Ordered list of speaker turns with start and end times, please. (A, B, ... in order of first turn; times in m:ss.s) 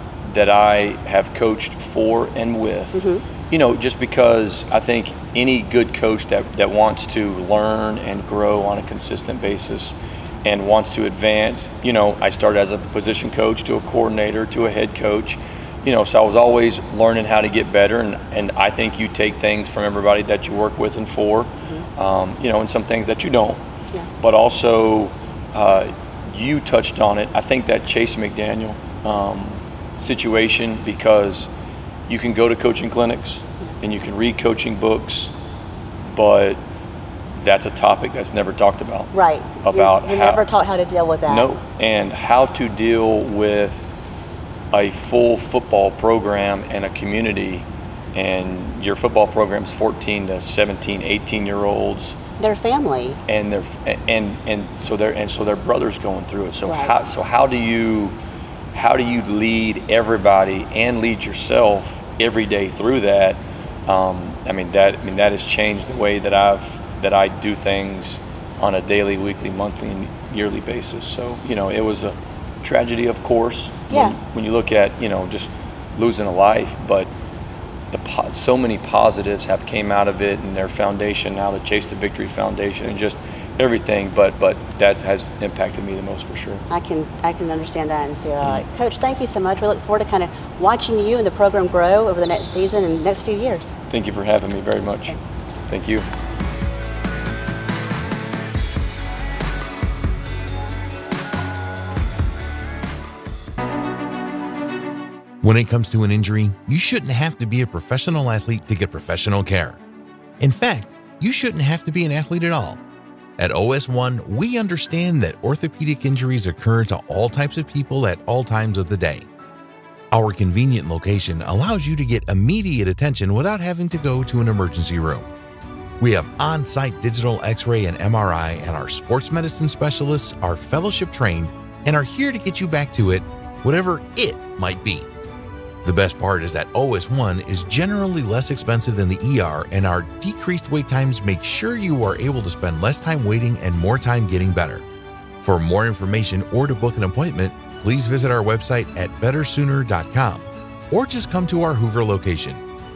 0:00.2-0:23.6 A
0:02.9-0:03.2 B
0:24.2-0:31.5 A
0:32.1-0:35.3 A
0:36.0-0:36.6 A
0:37.3-0:40.4 A
0:39.1-0:41.5 B
0:41.3-0:43.9 A
0:44.7-0:52.2 A
0:52.4-0:53.2 B
0:53.3-0:58.1 A
0:56.6-0:56.9 B
0:58.7-1:17.1 A
1:17.9-1:26.6 A
1:26.7-1:33.7 B
1:33.9-1:36.1 A
1:45.4-1:49.8 C
1:50.4-1:52.8 C
1:53.4-1:59.2 C
2:00.1-2:05.3 C
2:06.0-2:15.1 C
2:15.8-2:24.8 C
2:25.4-2:32.6 C